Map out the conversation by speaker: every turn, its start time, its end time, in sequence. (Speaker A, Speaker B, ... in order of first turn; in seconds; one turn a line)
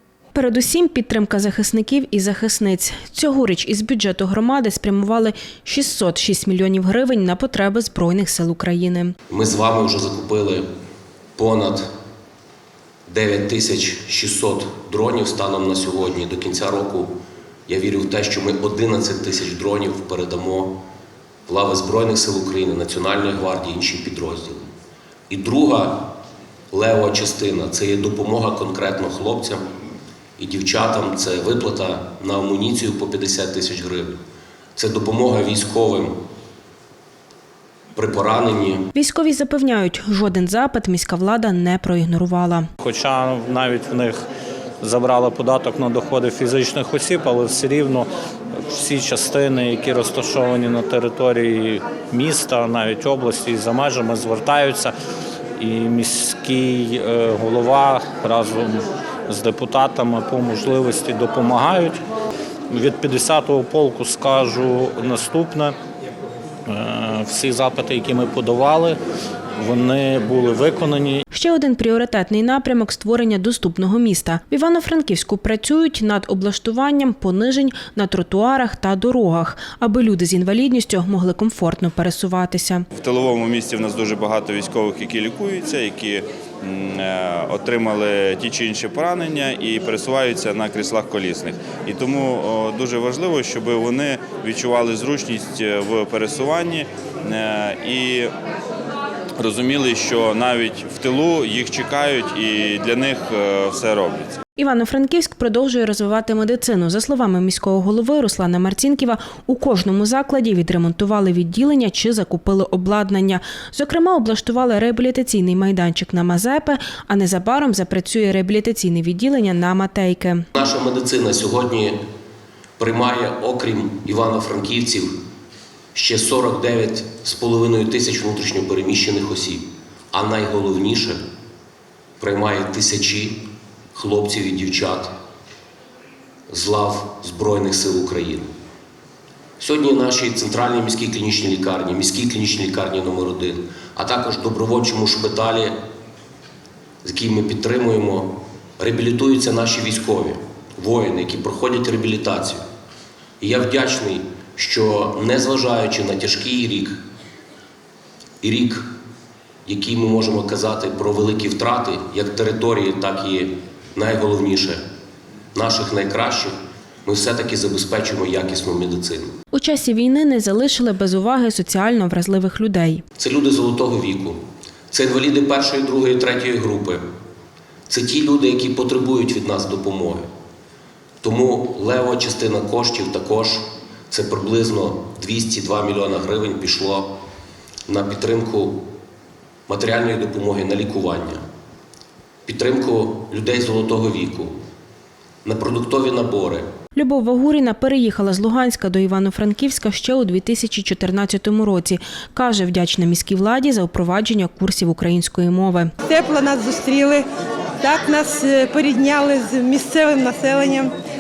Speaker A: 0.3-9.1
Speaker B: 9.3-10.6
Speaker B: 11.4-11.8
Speaker B: 13.1-17.1
Speaker B: 17.7-20.8
Speaker B: 21.5-24.7
Speaker B: 25.3-26.1
Speaker B: 26.7-29.6
Speaker B: 30.4-34.2
Speaker B: 34.8-36.1
Speaker B: 37.9-38.8
Speaker A: 38.9-42.6
Speaker C: 42.8-44.2
Speaker C: 44.8-48.1
Speaker C: 48.7-54.9
Speaker C: 55.6-62.0
Speaker C: 62.7-65.8
Speaker C: 66.7-69.0
Speaker C: 69.6-71.2
Speaker A: 71.3-82.8
Speaker D: 82.9-98.3
Speaker D: 99.4-104.4
Speaker A: 104.6-120.5
Speaker B: 120.5-122.0
Speaker B: 122.8-125.1
Speaker B: 125.9-131.2
Speaker B: 132.2-133.4
Speaker B: 133.9-135.1
Speaker B: 136.5-138.5
Speaker B: 139.6-145.8
Speaker B: 147.0-152.6
Speaker B: 153.4-157.0
Speaker B: 158.4-158.8
Speaker B: 159.6-164.8
Speaker B: 165.5-166.5
Speaker B: 167.0-169.3
Speaker A: 169.5-173.0
Speaker B: 173.2-174.4
Speaker B: 174.9-177.0
Speaker B: 177.9-180.3
Speaker B: 181.2-187.1
Speaker B: 187.9-188.8
Speaker B: 189.7-191.4
Speaker B: 192.4-194.5
Speaker B: 195.4-196.7
Speaker A: 196.9-205.9
Speaker E: 206.1-207.2
Speaker E: 207.8-210.9